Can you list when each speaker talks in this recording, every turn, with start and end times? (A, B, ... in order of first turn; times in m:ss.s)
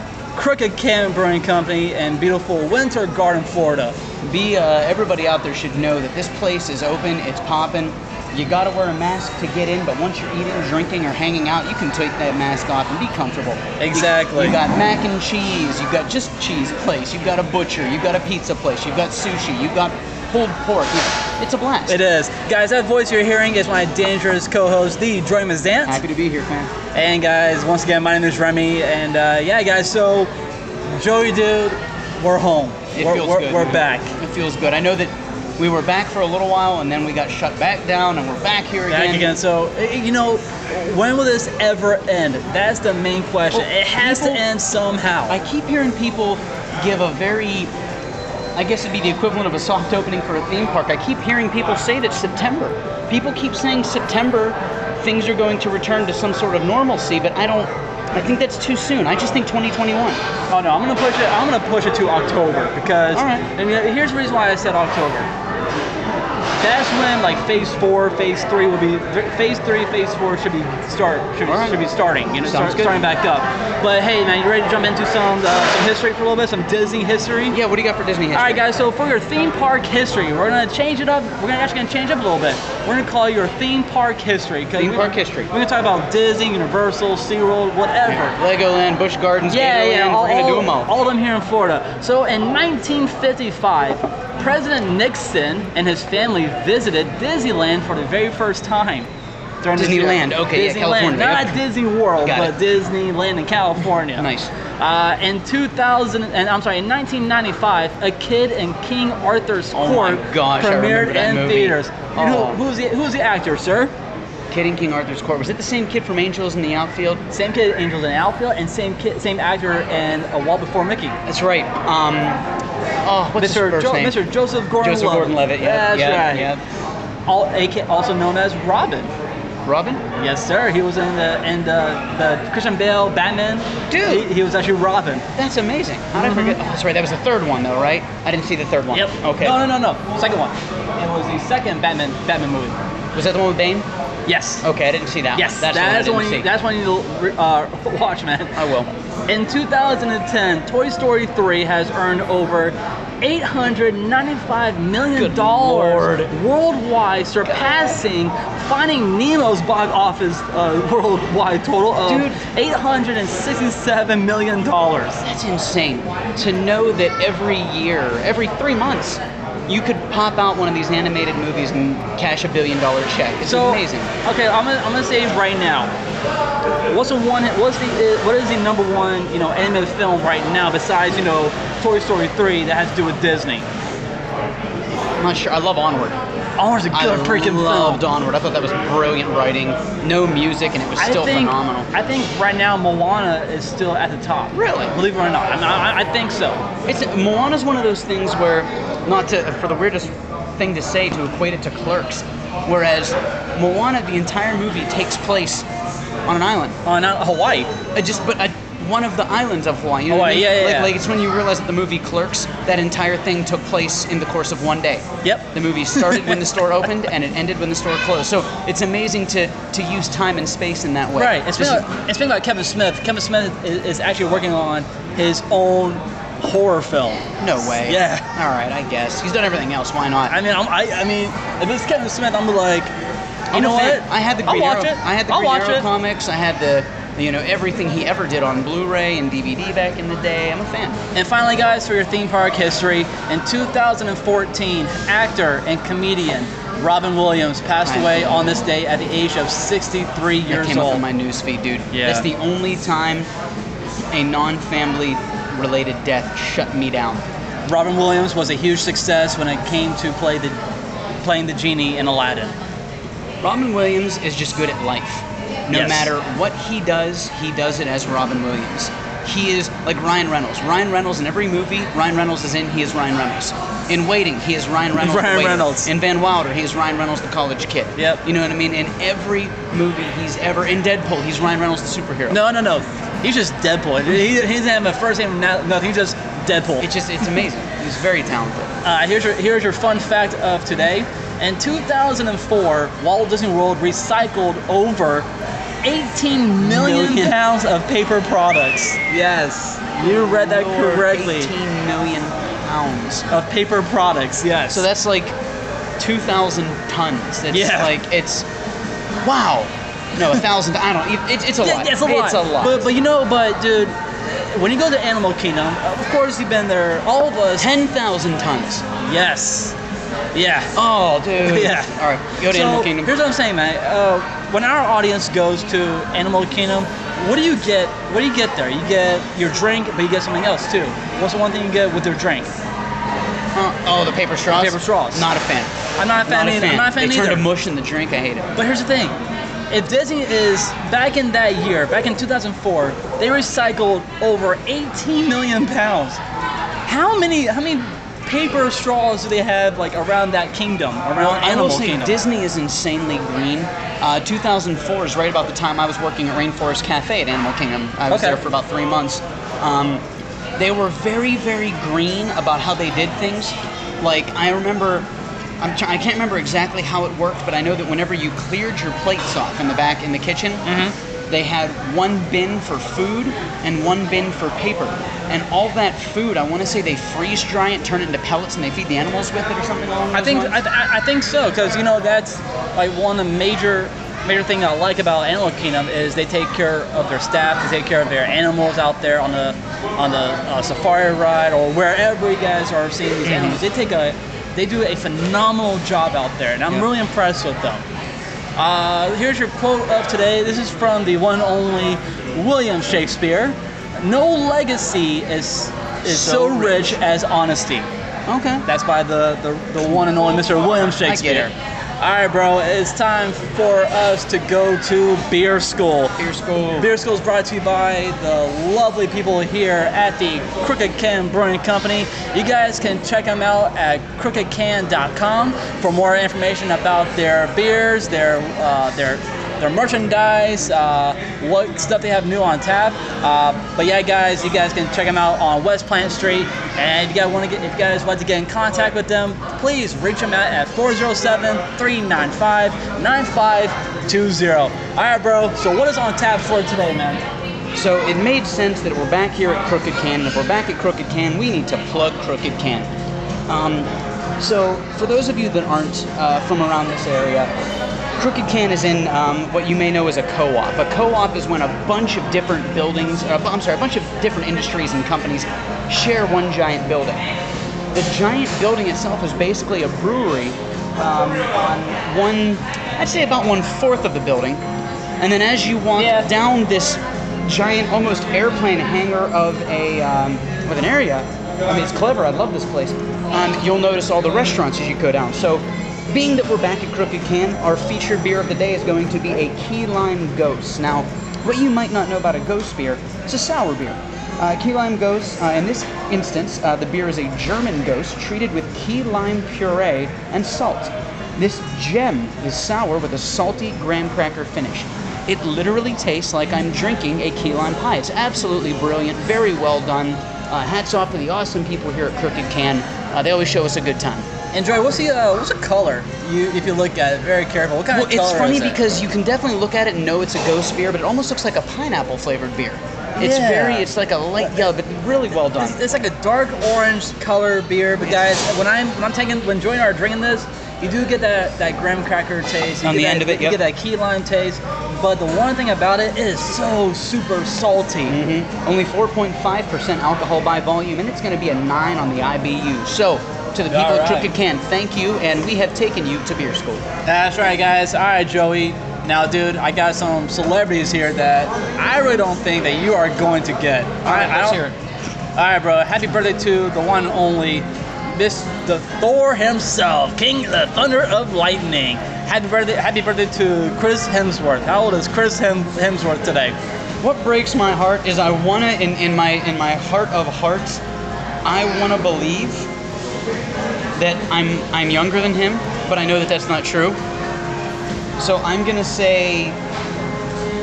0:00.3-0:04.0 A
0:04.2-0:22.0 B
0:13.8-0:14.6 A
0:21.9-0:26.0 A
0:25.8-0:26.7 B
0:26.9-0:30.3 A
0:30.9-0:34.1 A
0:32.9-0:39.4 B
0:38.9-0:45.4 A
0:43.5-0:44.4 B
0:45.3-0:47.7 B
0:48.5-1:00.2 B
1:00.5-1:05.3 A
1:03.1-1:03.5 B
1:06.6-1:17.6 A
1:11.4-1:11.8 B
1:12.4-1:13.0 B
1:17.5-1:18.6 B
1:18.3-1:28.4 A
1:24.8-1:25.5 B
1:28.0-1:30.9 B
1:29.5-1:39.1 A
1:39.6-1:53.9 A
1:39.8-1:41.6 B
1:42.2-1:42.6 B
1:44.2-1:44.5 B
1:49.7-1:52.6 B
1:54.5-1:57.2 B
1:57.3-2:01.2 A
2:01.2-2:02.4 B
2:03.0-2:04.2 B
2:03.4-2:06.5 A
2:04.8-2:06.6 B
2:07.3-2:09.1 A
2:09.6-2:10.0 B
2:10.1-2:15.2 A
2:13.9-2:14.3 B
2:15.4-2:19.6 B
2:16.1-2:16.6 A
2:18.9-2:22.8 A
2:23.1-2:23.9 B
2:24.2-2:24.6 A
2:24.6-2:26.5 B
2:25.3-2:28.6 A
2:28.5-2:28.9 B
2:29.3-2:45.2 A
2:35.1-2:36.3 B
2:42.0-2:42.4 B
2:45.2-2:54.1 B
2:53.4-2:55.9 A
2:56.9-3:03.6 A
3:05.1-3:06.2 B
3:06.6-3:08.0 A
3:06.9-3:11.9 B
3:11.0-3:16.6 A
3:14.5-3:14.9 B
3:16.8-3:25.7 B
3:26.2-3:26.8 B
3:26.8-3:27.7 A
3:27.9-3:41.8 B
3:30.1-3:30.9 A
3:35.2-3:36.4 A
3:41.2-3:47.2 A
3:47.4-3:50.4 B
3:47.8-3:48.3 A
3:50.3-3:52.9 A
3:53.5-4:01.0 B
3:53.5-3:55.9 A
4:01.1-4:11.0 A
4:07.8-4:08.5 B
4:10.5-4:13.3 B
4:11.9-4:12.3 A
4:14.1-4:17.2 B
4:17.7-4:20.6 A
4:21.2-4:22.5 A
4:23.4-4:42.4 B
4:25.7-4:26.1 A
4:35.0-4:35.9 A
4:38.0-4:38.2 A
4:42.3-4:46.9 A
4:46.8-4:48.7 B
4:48.8-4:55.3 A
4:55.8-5:01.5 A
4:56.6-4:57.4 B
5:00.0-5:03.3 B
5:03.3-5:04.9 A
5:04.7-5:05.4 B
5:06.0-5:08.5 B
5:07.5-5:08.0 A
5:09.2-5:12.9 B
5:11.6-5:17.7 A
5:17.6-5:18.8 B
5:19.0-5:19.8 A
5:20.3-5:20.7 A
5:20.7-5:23.1 B
5:21.4-5:32.5 A
5:33.5-5:35.7 B
5:34.5-5:35.3 A
5:36.0-5:37.4 A
5:36.2-5:38.5 B
5:38.6-5:39.2 A
5:39.7-5:46.2 A
5:46.8-5:52.2 A
5:51.1-6:00.0 B
5:58.1-5:58.4 A
6:00.6-6:05.1 B
6:05.6-6:10.7 B
6:10.6-6:10.9 A
6:11.3-6:20.6 B
6:20.1-6:37.8 A
6:33.2-6:33.6 B
6:38.6-6:47.9 A
6:46.0-6:47.0 B
6:48.3-6:48.6 B
6:48.6-6:56.1 A
6:51.0-6:51.5 B
6:56.2-6:56.9 B
6:56.8-7:27.2 A
7:27.7-7:32.9 B
7:33.5-7:37.5 B
7:38.2-7:47.3 B
7:47.9-7:54.6 B
7:55.2-8:34.3 B
7:56.0-7:56.3 A
8:34.5-8:38.8 A
8:37.9-8:45.8 B
8:43.2-8:43.9 A
8:45.5-8:58.2 A
8:52.8-8:53.6 B
8:58.1-9:06.8 B
9:03.7-9:04.3 A
9:07.0-9:14.7 A
9:14.0-9:14.7 B
9:15.4-9:26.6 A
9:27.0-9:30.8 B
9:31.4-9:32.7 B
9:34.0-9:37.0 B
9:38.2-9:39.6 B